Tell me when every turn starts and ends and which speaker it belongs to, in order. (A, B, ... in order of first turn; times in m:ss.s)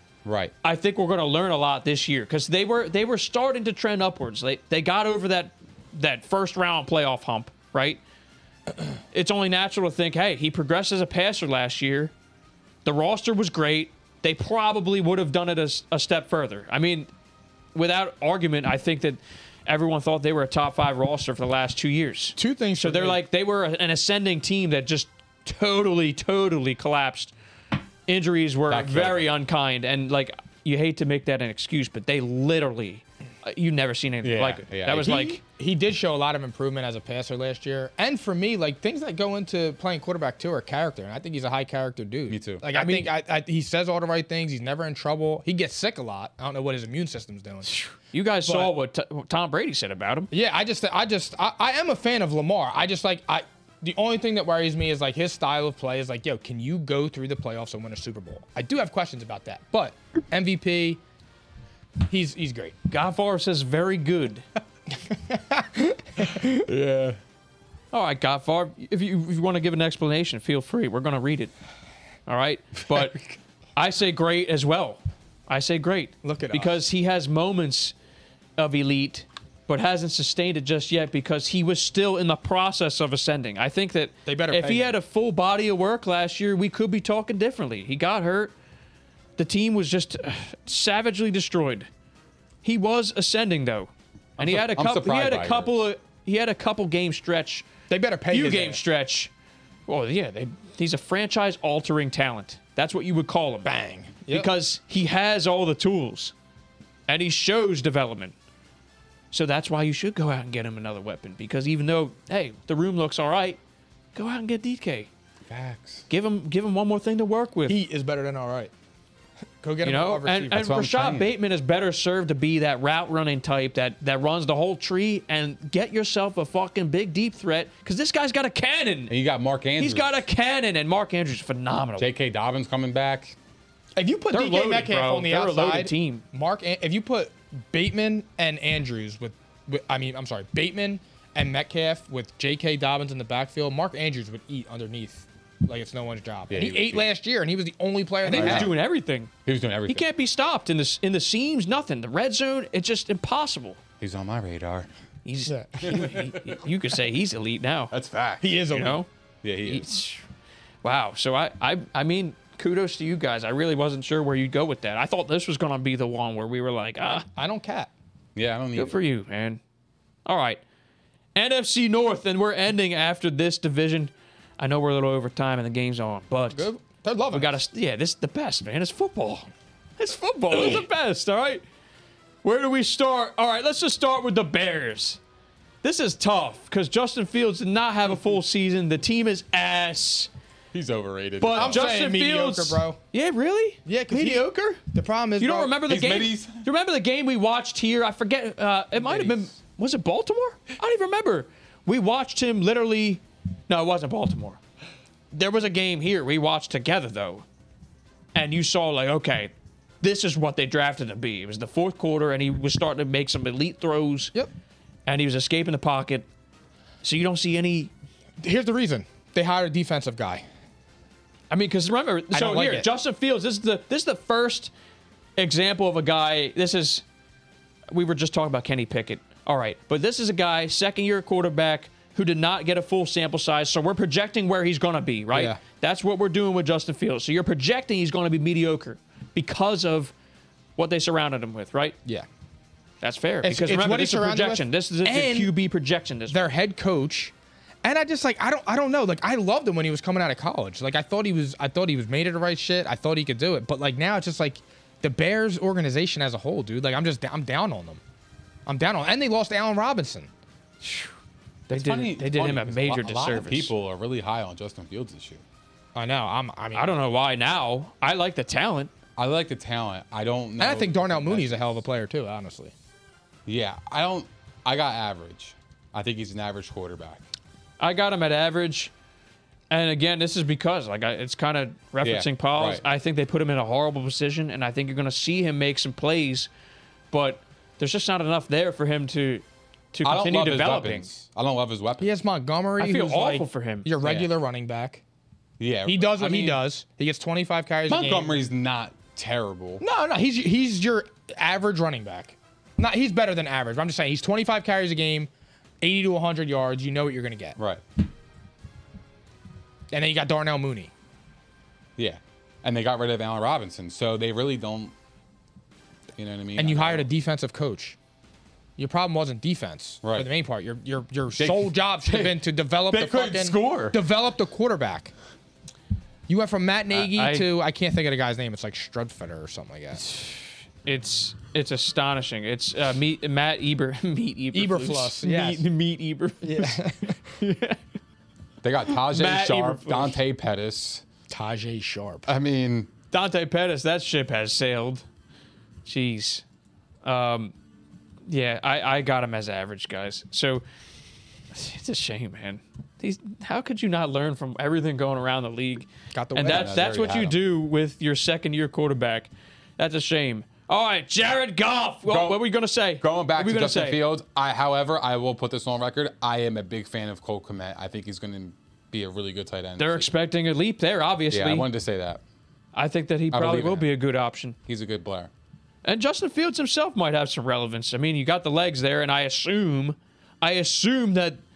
0:00.2-0:00.5 A
0:00.6-0:08.0 B
0:09.1-0:12.1 B
0:12.8-0:17.1 B
0:17.7-0:27.3 B
0:22.4-0:23.2 C
0:28.1-0:35.4 B
0:28.7-0:29.3 A
0:34.2-0:35.4 A
0:35.0-0:47.8 C
0:42.3-0:42.6 A
0:42.7-0:43.1 B
0:47.7-0:50.3 B
0:48.4-0:48.7 C
0:50.3-1:01.0 C
1:02.1-1:02.8 C
1:02.9-1:04.4 B
1:05.1-1:06.6 C
1:06.5-1:07.2 A
1:07.9-1:11.5 B
1:12.3-1:13.2 B
1:12.9-1:13.2 A
1:13.8-1:17.9 B
1:16.2-1:16.8 C
1:18.6-1:28.5 B
1:24.3-1:25.0 C
1:29.4-1:31.9 B
1:32.6-1:37.7 B
1:34.4-1:35.8 A
1:37.9-1:38.8 C
1:38.3-1:39.3 B
1:39.9-1:43.7 B
1:43.6-1:44.5 C
1:44.3-1:46.3 B
1:47.1-1:48.4 B
1:49.3-1:53.6 B
1:54.2-1:55.1 B
1:55.5-1:56.1 A
1:56.1-1:57.8 B
1:57.7-1:58.7 C
1:59.6-2:00.6 C
1:59.8-2:09.2 B
2:00.5-2:01.3 A
2:09.1-2:10.2 A
2:09.8-2:12.1 B
2:12.0-2:13.4 A
2:14.0-2:28.7 C
2:14.3-2:16.2 B
2:26.5-2:27.1 A
2:28.2-2:29.3 B
2:28.3-2:28.8 A
2:29.4-2:30.0 A
2:29.9-2:33.8 B
2:34.0-2:34.9 A
2:35.2-2:37.9 B
2:35.5-2:36.1 C
2:35.8-2:36.6 A
2:37.9-2:38.6 A
2:38.4-2:39.0 C
2:38.7-2:39.1 B
2:39.4-2:39.9 A
2:39.6-2:40.2 B
2:40.8-2:47.3 B
2:47.0-2:47.9 C
2:48.4-2:49.0 A
2:48.8-2:49.6 B
2:50.3-2:50.6 B
2:51.4-2:56.7 B
2:56.5-2:57.6 C
2:57.3-3:01.6 B
3:02.4-3:05.2 B
3:05.8-3:10.3 B
3:10.7-3:12.0 A
3:11.4-3:14.9 B
3:11.5-3:13.0 C
3:13.9-3:15.8 C
3:15.4-3:24.6 B
3:15.8-3:16.7 A
3:19.1-3:19.4 A
3:25.3-3:27.4 B
3:28.4-3:34.3 B
3:35.1-3:36.3 B
3:37.0-3:37.9 B
3:38.4-3:40.4 C
3:41.5-3:44.7 B
3:42.3-3:42.9 C
3:45.4-3:47.0 B
3:47.9-4:00.1 B
3:55.3-3:55.6 C
4:00.8-4:02.0 B
4:03.0-4:06.4 B
4:03.4-4:05.5 C
4:06.3-4:18.0 C
4:18.7-4:20.3 C
4:20.8-4:21.1 B
4:21.7-4:23.7 B
4:21.7-4:25.4 A
4:26.0-4:26.9 C
4:26.7-4:28.9 B
4:29.2-4:31.8 A
4:30.6-4:32.7 C
4:33.5-4:37.2 A
4:37.8-4:38.9 B
4:39.7-4:46.5 B
4:42.0-4:42.8 A
4:47.1-4:51.1 B
4:50.0-4:52.1 A
4:52.0-4:55.0 C
4:52.8-4:53.9 B
4:54.0-4:54.3 A
4:55.6-4:56.6 A
4:55.8-4:58.4 C
4:57.9-4:59.8 A
4:59.8-5:05.3 C
5:05.8-5:07.6 C
5:07.6-5:07.8 A
5:09.9-5:10.9 C
5:12.0-5:14.9 A
5:16.2-5:17.1 A
5:16.6-5:18.0 C
5:18.8-5:25.1 C
5:20.0-5:20.3 A
5:21.4-5:24.0 A
5:26.3-5:30.1 C
5:26.9-5:27.5 B
5:30.8-5:37.8 B
5:34.5-5:35.6 C
5:36.4-5:37.2 C
5:38.6-5:41.0 A
5:38.9-5:40.2 B
5:41.3-5:42.3 C
5:42.3-5:42.9 A
5:43.1-5:45.0 B
5:45.8-5:46.4 B
5:47.0-5:47.5 B
5:48.3-5:50.6 B
5:51.5-6:04.0 B
5:56.1-5:57.0 C
5:56.4-5:57.4 A
6:02.1-6:10.1 A
6:09.8-6:11.7 B
6:11.3-6:12.2 A
6:12.7-6:14.6 B
6:13.3-6:13.9 A
6:14.7-6:15.3 A
6:15.8-6:21.4 B